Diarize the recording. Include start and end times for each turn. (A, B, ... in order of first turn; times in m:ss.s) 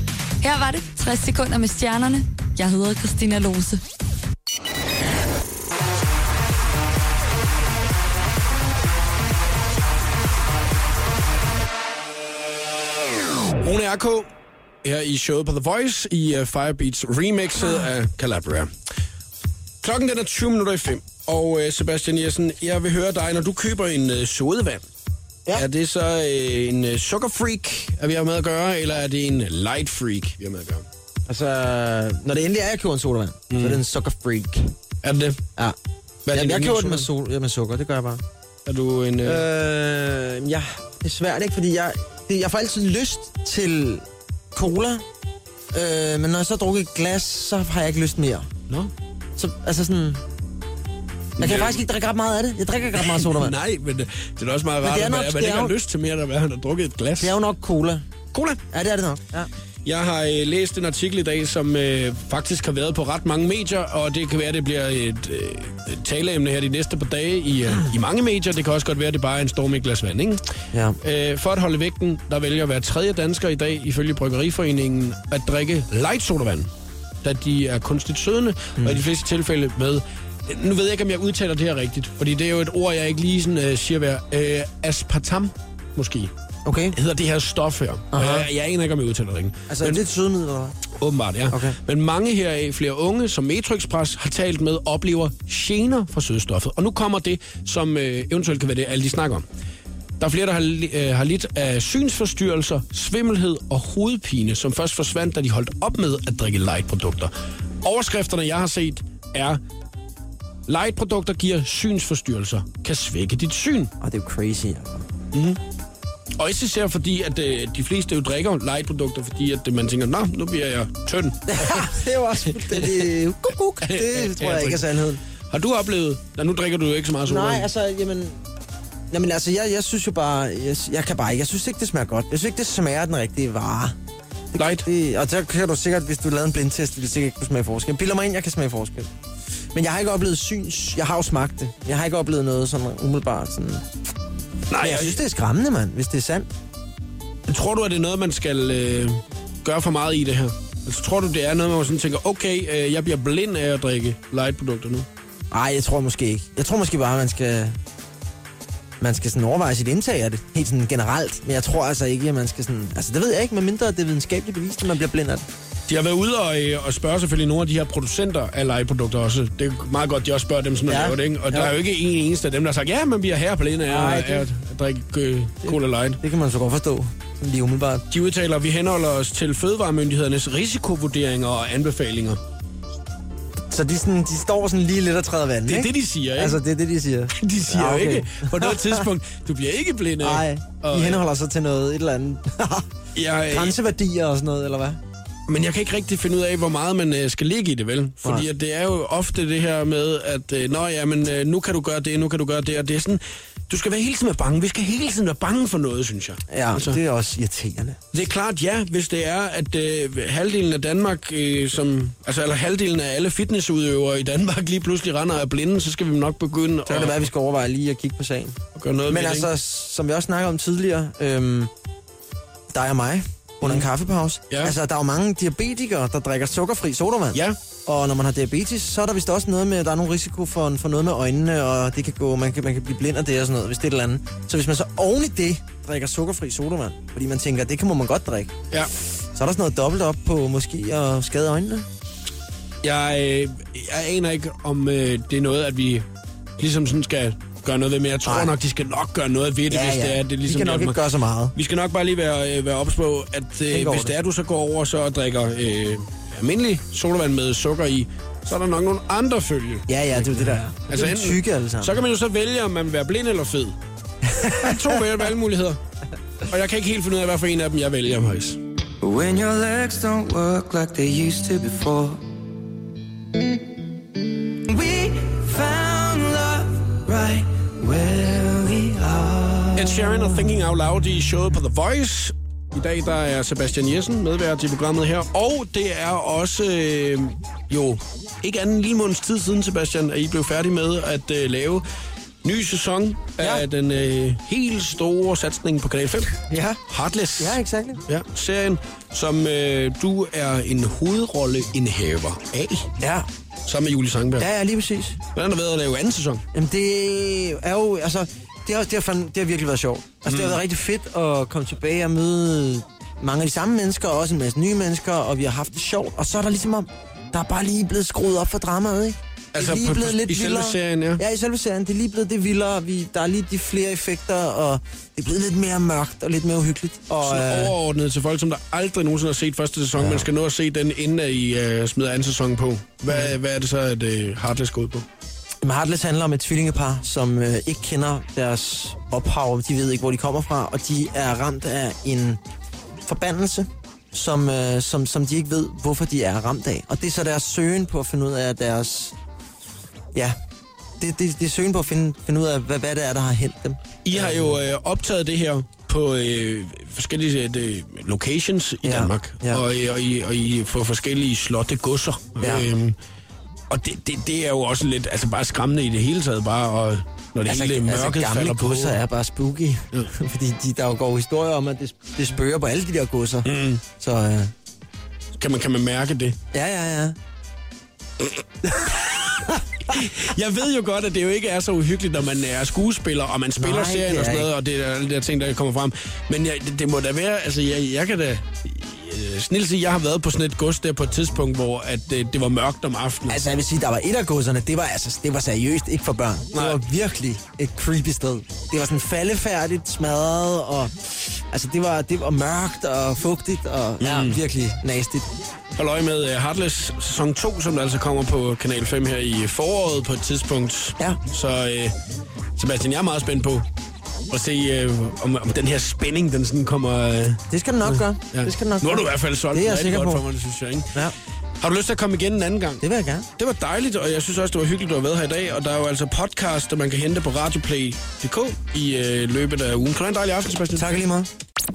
0:00.4-0:03.8 A
0:13.6-0:14.3 B
0:14.8-0:18.7 B
0:19.8-0:24.8 B
0:25.5-0:30.8 B
0:31.3-0:34.7 C
0:33.5-0:33.8 B
0:35.0-0:35.4 B
0:36.3-0:37.1 B
0:36.3-0:38.2 C
0:38.7-0:39.5 B
0:39.2-0:45.0 C
0:45.7-0:48.5 C
0:49.4-0:50.2 C
0:51.4-0:53.6 C
0:51.4-0:51.8 B
0:53.0-0:57.4 B
0:54.8-0:55.8 C
0:57.2-0:58.0 C
0:58.3-0:58.6 B
0:58.7-0:59.5 C
0:59.8-1:10.4 B
1:10.7-1:11.0 C
1:11.0-1:16.7 B
1:17.2-1:26.3 B
1:18.8-1:19.0 C
1:26.6-1:27.0 C
1:26.9-1:30.0 B
1:28.1-1:28.5 C
1:29.7-1:30.8 C
1:31.0-1:39.4 B
1:31.5-1:31.8 C
1:40.2-1:47.3 B
1:47.8-1:49.6 B
1:50.7-1:53.9 B
1:54.0-1:55.1 C
1:55.3-1:55.6 B
1:56.4-2:01.9 B
2:01.5-2:05.2 C
2:02.6-2:03.1 B
2:03.8-2:04.8 B
2:05.5-2:07.7 B
2:07.2-2:08.4 C
2:09.1-2:14.0 C
2:14.5-2:19.1 C
2:14.6-2:14.9 B
2:19.7-2:23.8 C
2:24.7-2:25.2 B
2:24.8-2:26.5 C
2:27.5-2:35.1 B
2:35.5-2:37.8 C
2:39.0-2:45.5 C
2:45.9-2:56.2 B
2:50.9-2:51.7 C
2:53.8-2:54.5 C
2:55.6-2:58.0 C
2:58.1-3:02.4 B
3:03.6-3:09.1 C
3:05.7-3:06.6 B
3:07.4-3:11.2 B
3:10.2-3:12.9 C
3:13.2-3:13.8 B
3:13.5-3:15.0 C
3:15.5-3:27.0 B
3:26.5-3:28.0 C
3:28.1-3:37.3 B
3:36.9-3:41.7 C
3:38.8-3:39.5 B
3:42.7-3:58.6 C
3:44.5-3:44.8 B
3:59.3-4:01.9 C
4:02.8-4:06.0 B
4:06.6-4:11.0 B
4:08.2-4:08.5 C
4:09.7-4:11.5 C
4:11.6-4:23.8 B
4:13.7-4:14.1 C
4:19.9-4:22.0 C
4:24.3-4:25.0 C
4:24.4-4:25.8 B
4:26.5-4:28.6 B
4:29.0-4:32.2 D
4:34.6-4:40.5 D
4:39.8-4:51.8 B
4:52.4-4:56.3 B
4:53.4-4:53.6 C
4:56.4-4:56.8 C
4:56.9-5:02.9 B
4:57.4-4:58.0 C
5:03.0-5:03.3 C
5:03.7-5:04.5 B
5:04.4-5:05.2 C
5:05.3-5:06.4 B
5:06.5-5:27.8 C
5:10.3-5:10.6 B
5:19.5-5:21.2 B
5:27.2-5:35.1 B
5:30.0-5:30.3 C
5:33.1-5:33.4 C
5:35.6-5:42.4 C
5:43.0-5:49.2 C
5:51.0-5:54.6 C
5:54.0-6:03.0 B
5:58.8-5:59.6 C
6:02.4-6:02.7 C
6:03.7-6:09.0 B
6:07.5-6:14.5 C
6:13.4-6:13.8 B
6:15.4-6:16.4 B
6:16.5-6:17.2 C
6:18.6-6:20.0 C
6:19.9-6:33.4 B
6:23.6-6:24.5 C
6:33.3-6:45.3 C
6:36.5-6:36.8 B
6:44.0-6:44.4 B
6:45.8-6:51.9 B
6:52.6-6:53.6 B
6:54.3-7:01.0 B
6:57.5-7:00.2 C
7:01.6-7:02.8 B
7:02.8-7:03.3 C
7:03.4-7:10.9 B
7:10.8-7:11.3 C